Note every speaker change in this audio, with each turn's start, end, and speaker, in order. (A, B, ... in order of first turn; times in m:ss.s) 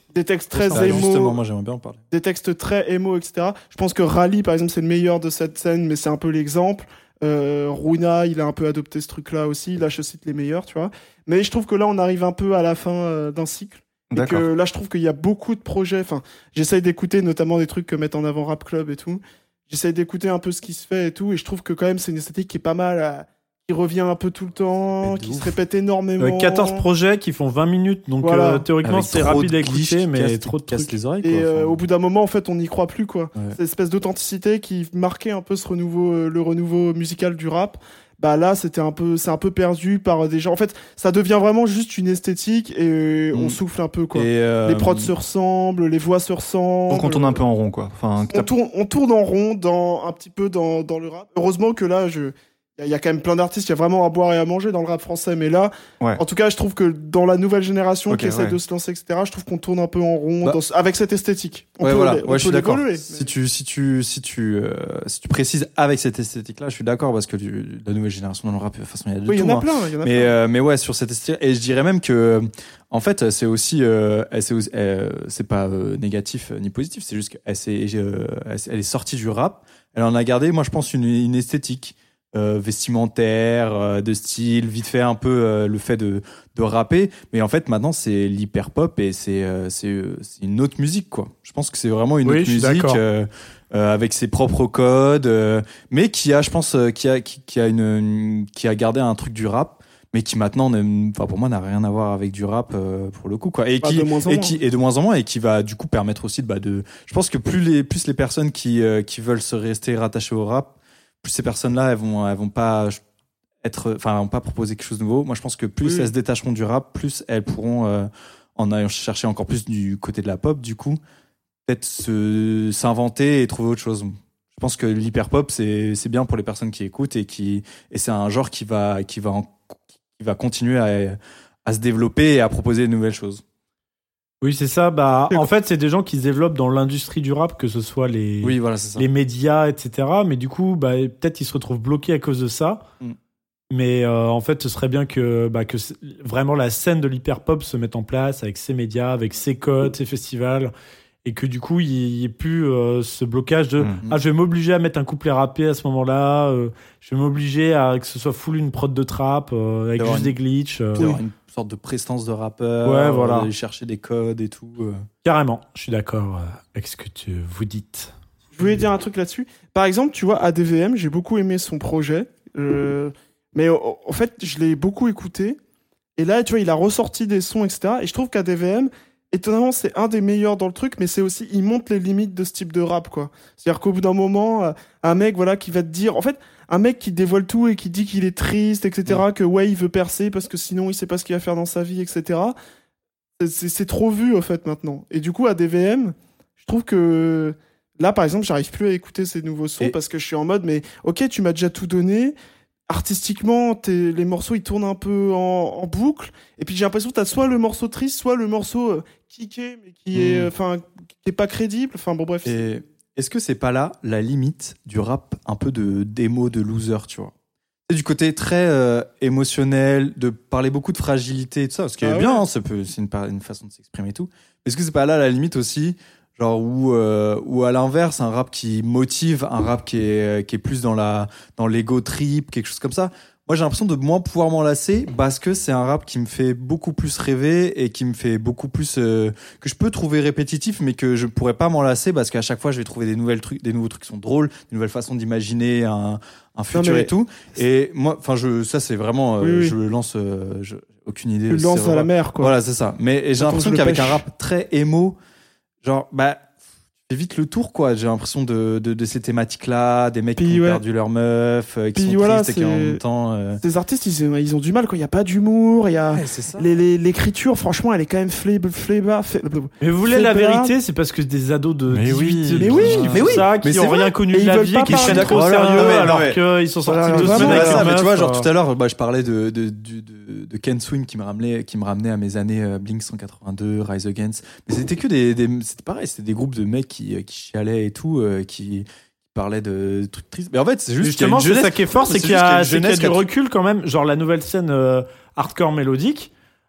0:00.1-0:01.4 A
0:00.5-0:02.0 B
0:00.7-0:01.1 C
0:02.1-0:26.8 A
0:14.1-0:14.5 D
0:25.0-0:25.6 B
0:26.2-0:31.0 C
0:28.2-0:28.6 A
0:28.8-0:31.8 B
0:31.2-0:47.4 A
0:43.3-0:43.6 B
0:44.1-0:45.1 B
0:46.9-0:48.5 D
0:48.3-1:03.3 A
0:58.1-0:58.6 D
1:01.8-1:53.0 B
1:09.3-1:10.4 A
1:32.2-1:33.0 C
1:43.8-1:44.6 A
1:53.6-2:01.0 B
1:55.8-1:56.1 A
2:01.7-2:13.4 B
2:14.4-2:22.8 C
2:18.4-2:19.1 B
2:23.7-2:30.7 C
2:31.2-2:41.1 C
2:40.0-2:40.4 B
2:41.0-2:45.0 B
2:42.8-2:43.5 C
2:45.2-2:48.1 C
2:48.6-2:55.6 A
2:56.2-3:12.6 A
3:13.4-3:22.4 A
3:22.9-3:32.8 A
3:30.1-3:30.5 B
3:32.4-3:37.3 B
3:37.9-4:15.2 B
3:42.0-3:42.4 A
4:06.7-4:07.1 A
4:09.4-4:09.7 A
4:11.5-4:12.5 A
4:13.4-4:14.2 A
4:15.8-4:16.5 B
4:17.1-4:23.6 B
4:20.4-4:20.8 A
4:22.0-4:23.0 A
4:23.6-4:30.7 A
4:26.1-4:26.8 B
4:29.8-4:38.5 C
4:31.9-4:33.4 D
4:32.6-4:33.5 A
4:33.1-4:34.1 B
4:34.2-4:36.0 A
4:34.9-4:36.4 B
4:36.8-4:37.8 D
4:37.1-4:37.8 A
4:37.2-4:53.2 B
4:51.0-4:56.3 C